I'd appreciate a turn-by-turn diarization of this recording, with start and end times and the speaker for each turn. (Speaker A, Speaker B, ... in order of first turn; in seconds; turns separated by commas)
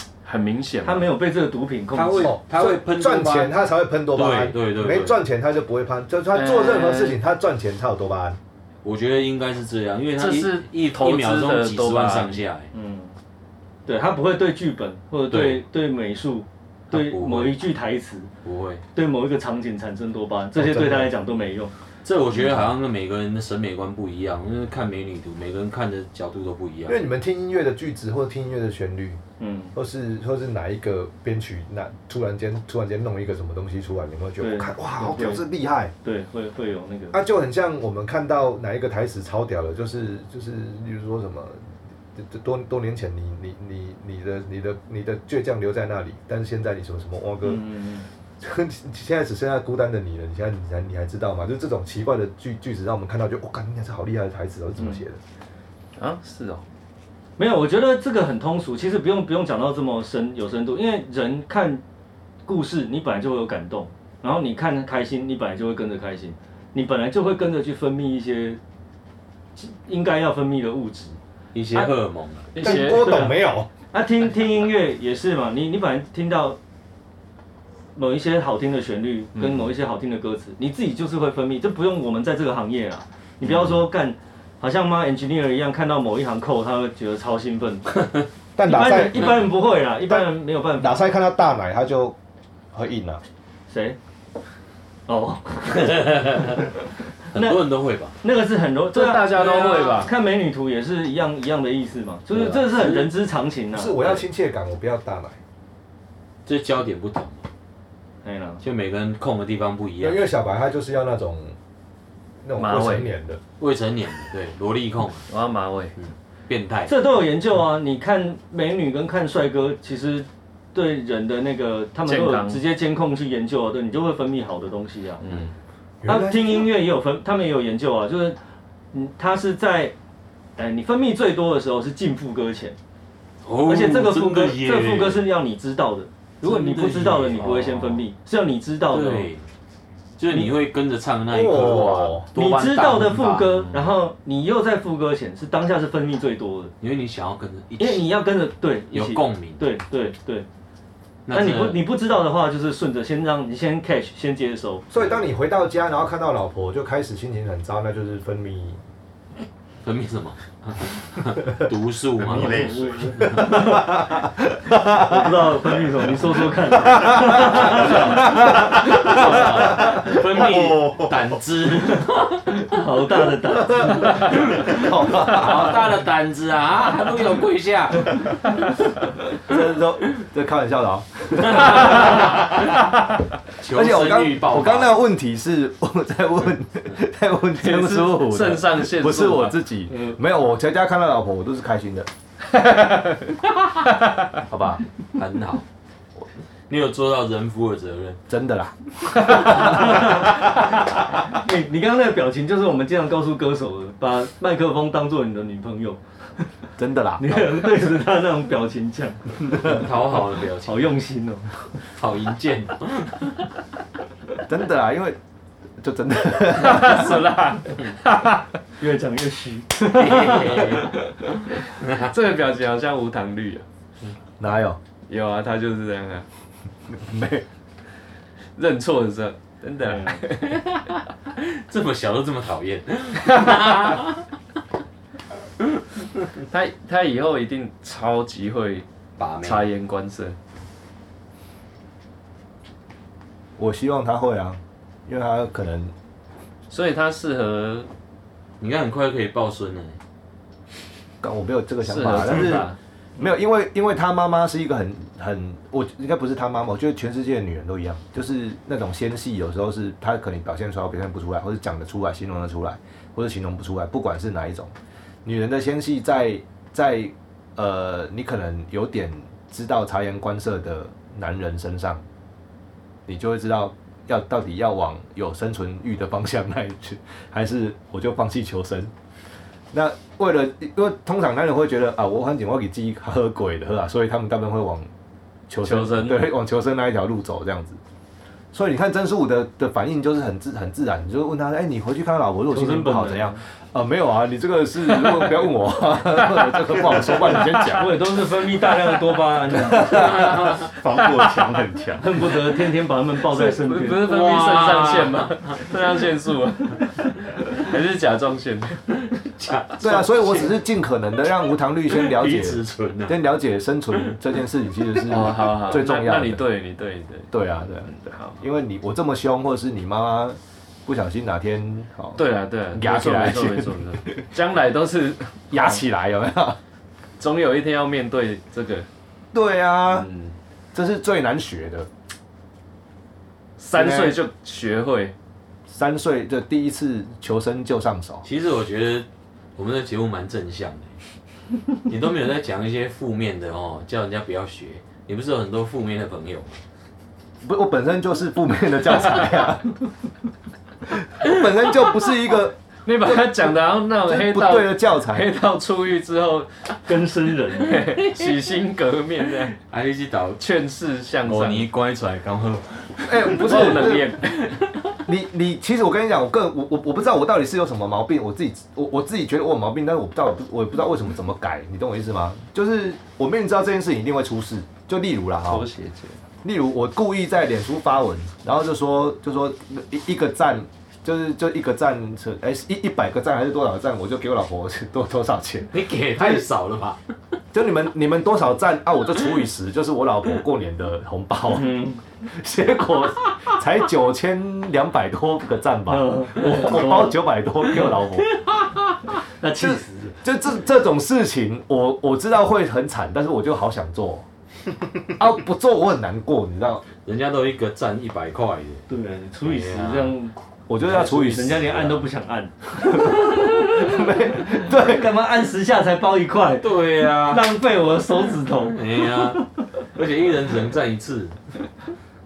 Speaker A: 0.2-1.1, Speaker B: 0.8-2.3, Speaker C: 1.9-3.5, Speaker D: 2.2-8.4, Speaker C: 4.1-5.1, Speaker A: 6.3-7.2, Speaker C: 8.8-12.7, Speaker A: 10.2-12.4, Speaker B: 12.7-13.1, Speaker B: 13.8-18.3, Speaker C: 15.3-15.6, Speaker C: 16.9-17.5, Speaker C: 18.4-18.8, Speaker B: 18.9-21.7, Speaker D: 20.5-21.1, Speaker C: 22.0-27.0, Speaker D: 26.9-29.2, Speaker B: 29.4-29.7, Speaker D: 29.7-35.9, Speaker B: 34.4-35.4, Speaker B: 36.0-37.2, Speaker D: 37.1-47.7, Speaker B: 47.4-48.1, Speaker D: 48.4-55.2, Speaker A: 56.0-56.6, Speaker B: 57.4-61.8, Speaker B: 62.5-68.6, Speaker B: 69.5-71.2, Speaker C: 71.5-72.5, Speaker A: 72.5-73.1, Speaker B: 72.5-73.3, Speaker D: 72.6-73.7, Speaker B: 73.9-76.6, Speaker B: 78.0-87.9, Speaker C: 83.5-83.7, Speaker D: 88.5-89.5, Speaker B: 88.6-91.0, Speaker D: 90.1-92.2, Speaker D: 92.7-93.2, Speaker B: 93.7-94.0, Speaker B: 95.1-96.1, Speaker C: 95.7-96.7, Speaker C: 97.3-98.2, Speaker B: 97.3-97.6, Speaker B: 98.2-104.2, Speaker A: 98.9-100.1, Speaker C: 102.3-103.1, Speaker D: 103.7-105.4, Speaker C: 106.5-107.4, Speaker B: 108.2-108.6, Speaker C: 108.6-110.2, Speaker D: 110.0-111.5, Speaker D: 112.4-113.4, Speaker A: 112.6-113.1, Speaker C: 113.6-115.3, Speaker A: 115.3-115.9, Speaker C: 116.0-116.9, Speaker B: 116.9-125.2, Speaker A: 122.0-122.6, Speaker D: 126.0-126.7, Speaker B: 126.0-128.4, Speaker B: 128.9-129.9, Speaker B: 130.6-132.8, Speaker C: 133.4-135.3, Speaker B: 133.7-139.3, Speaker C: 136.4-138.0, Speaker C: 138.9-139.4, Speaker C: 140.2-143.9, Speaker D: 141.3-142.3, Speaker B: 142.3-146.7, Speaker C: 146.8-148.1, Speaker B: 147.8-150.4, Speaker C: 148.9-149.6, Speaker C: 151.2-151.8, Speaker B: 151.3-154.9, Speaker D: 154.9-158.8, Speaker C: 159.8-163.6, Speaker E: 162.3-163.4, Speaker B: 162.4-164.0, Speaker D: 163.2-165.3, Speaker B: 164.9-168.2, Speaker D: 166.7-169.9, Speaker C: 167.7-168.0, Speaker C: 168.6-172.6, Speaker E: 169.1-171.4, Speaker B: 172.6-174.4, Speaker D: 173.7-175.8, Speaker C: 174.2-178.6, Speaker D: 179.4-182.8, Speaker C: 181.4-182.7, Speaker C: 183.6-184.9, Speaker D: 183.7-192.1, Speaker A: 187.6-189.6, Speaker A: 192.5-193.3, Speaker D: 194.5-194.8, Speaker C: 195.1-195.6, Speaker C: 196.7-198.2, Speaker D: 198.3-200.2, Speaker C: 199.7-200.1, Speaker B: 201.3-206.5, Speaker D: 206.8-207.7, Speaker B: 207.2-209.5, Speaker D: 209.4-209.8, Speaker C: 209.6-210.9, Speaker B: 210.6-211.6, Speaker C: 211.8-213.3, Speaker D: 214.5-215.2, Speaker D: 215.8-217.3, Speaker A: 216.5-218.5, Speaker B: 218.8-220.8, Speaker C: 219.9-220.9, Speaker C: 221.8-222.1, Speaker A: 221.8-223.6, Speaker D: 224.4-224.8, Speaker A: 225.1-226.2, Speaker D: 226.9-227.4, Speaker A: 228.6-230.7, Speaker B: 229.8-230.2, Speaker C: 230.5-234.3, Speaker A: 233.3-233.9, Speaker A: 236.5-238.8, Speaker C: 239.2-239.7, Speaker A: 239.4-240.4, Speaker D: 243.6-245.9, Speaker A: 246.7-247.9, Speaker C: 248.6-250.0, Speaker D: 251.2-264.7, Speaker A: 251.8-252.8, Speaker D: 265.2-272.0, Speaker D: 273.1-278.9, Speaker D: 279.7-284.9, Speaker D: 285.5-287.8, Speaker A: 285.6-286.3, Speaker D: 288.5-297.9, Speaker B: 292.5-293.4, Speaker A: 296.2-296.6, Speaker A: 297.2-297.6, Speaker B: 297.7-300.0, Speaker D: 299.6-300.3, Speaker C: 299.8-300.7, Speaker E: 300.2-302.0, Speaker B: 302.0-304.1, Speaker A: 303.3-308.8, Speaker C: 304.0-305.6, Speaker C: 309.1-310.4, Speaker D: 309.8-316.4, Speaker C: 311.9-313.2, Speaker A: 315.1-317.3, Speaker D: 317.3-322.2, Speaker A: 317.9-318.4, Speaker A: 322.1-325.8, Speaker D: 322.7-324.2, Speaker D: 325.5-326.6, Speaker A: 327.2-328.9, Speaker D: 329.3-330.1, Speaker A: 329.9-330.3, Speaker D: 330.7-331.9, Speaker A: 333.6-335.1, Speaker D: 333.7-334.2, Speaker D: 335.7-338.2, Speaker C: 338.2-340.9, Speaker C: 341.9-346.6, Speaker D: 347.4-349.8, Speaker D: 350.9-353.5, Speaker A: 352.9-356.5, Speaker D: 354.0-355.3, Speaker B: 356.9-357.9, Speaker A: 357.5-359.6, Speaker C: 359.7-360.4, Speaker A: 360.4-361.7, Speaker C: 361.2-364.7, Speaker D: 363.1-364.1, Speaker A: 363.3-364.5, Speaker D: 365.0-375.7, Speaker A: 375.5-376.2, Speaker D: 376.4-386.4, Speaker C: 385.7-387.0, Speaker D: 387.5-398.3, Speaker B: 391.5-392.0, Speaker B: 395.9-397.2, Speaker C: 398.3-399.0, Speaker B: 399.4-400.2, Speaker D: 399.6-404.2, Speaker D: 405.2-406.9, Speaker C: 407.0-408.8, Speaker B: 408.9-410.3, Speaker C: 409.4-410.1, Speaker D: 410.7-411.7, Speaker C: 410.8-412.0, Speaker B: 410.8-419.5, Speaker D: 413.0-415.1, Speaker C: 416.6-417.5, Speaker C: 418.6-421.4